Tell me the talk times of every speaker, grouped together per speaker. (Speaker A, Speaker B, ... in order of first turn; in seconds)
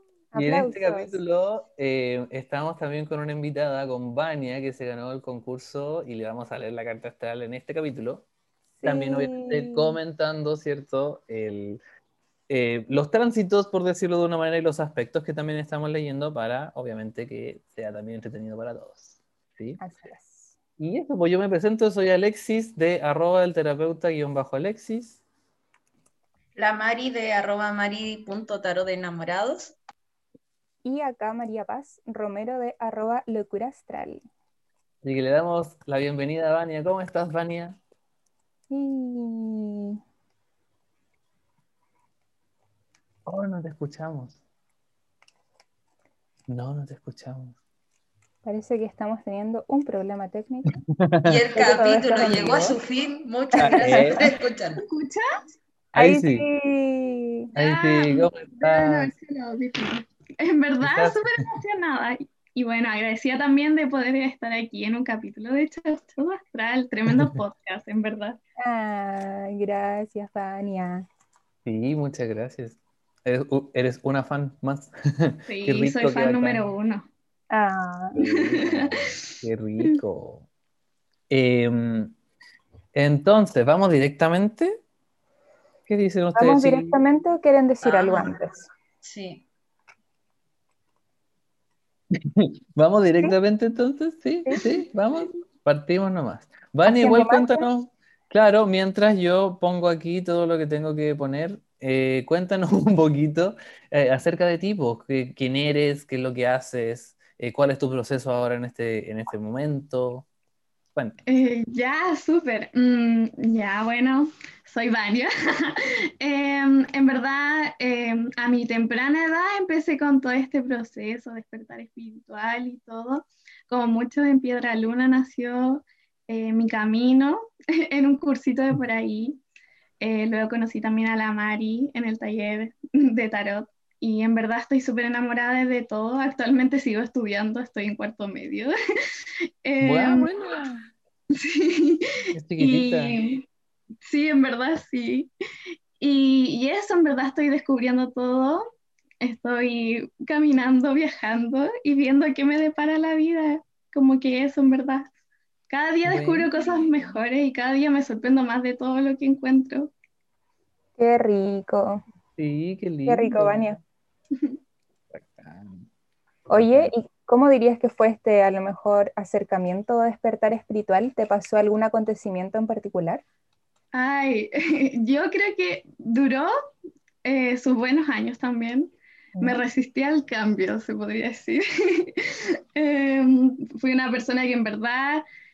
Speaker A: 0.3-1.2, 8.8-9.9, 19.8-20.5, 30.8-34.2, 38.7-40.0, 48.4-50.8, 51.5-52.8, 53.6-54.1, 56.0-57.5, 68.6-71.0, 77.5-78.2, 86.3-88.6, 96.8-97.7, 161.0-162.0, 163.1-163.8, 166.5-173.2, 179.4-179.6
Speaker B: 0.3-8.2, 8.8-11.8, 12.5-19.8, 20.8-25.2, 35.0-37.8, 43.2-44.4, 46.5-47.5, 51.0-51.3, 53.6-54.3, 55.9-56.5, 57.5-59.1, 60.8-61.4, 71.6-76.6, 78.1-80.5, 81.3-82.1, 82.9-84.8, 85.9-87.0, 92.1-110.2, 139.8-140.9, 142.3-143.1, 156.0-156.5, 162.4-163.8, 165.1-165.8, 166.5-166.9
Speaker C: 26.6-29.8, 51.2-54.8, 87.8-88.3, 89.0-89.4
Speaker D: 54.9-55.3, 57.6-68.4, 75.5-77.1, 78.5-79.2, 111.3-129.4, 130.0-138.7, 139.6-140.3, 141.3-143.4, 144.0-145.3, 146.0-148.6, 149.2-155.1, 155.7-159.9, 173.9-176.5, 177.2-185.2